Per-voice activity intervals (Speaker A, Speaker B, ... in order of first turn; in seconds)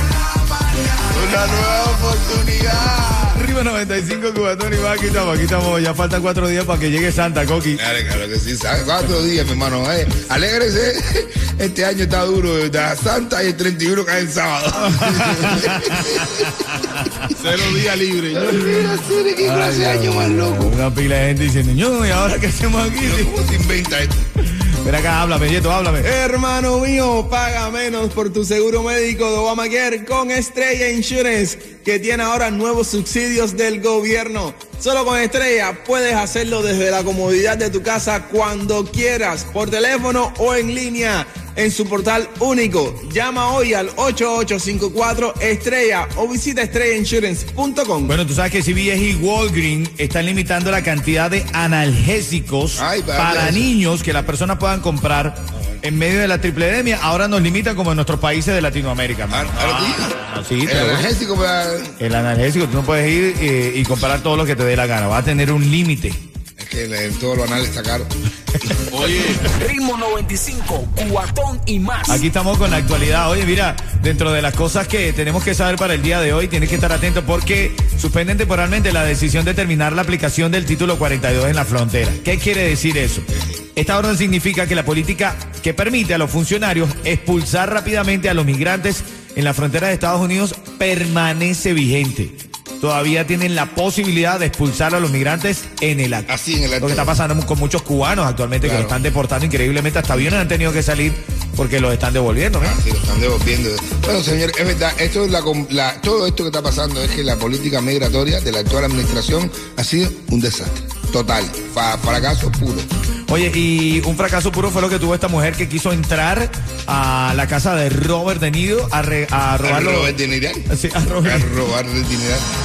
Speaker A: 1.1-3.4, 17.4-18.6, 68.9-69.5
Speaker B: 3.3-7.8, 15.0-17.3, 19.4-23.3, 24.8-26.1, 48.1-61.1, 62.0-66.2, 72.0-96.3, 96.8-102.8, 113.3-120.2, 120.7-121.5
Speaker C: 7.8-16.3, 18.3-20.8, 23.0-24.2, 52.8-53.7, 59.3-62.0, 66.6-68.1, 96.3-97.1, 98.6-99.0, 102.6-112.9, 119.6-120.7, 121.2-122.5
Speaker D: 26.0-48.1
Speaker E: 69.5-72.2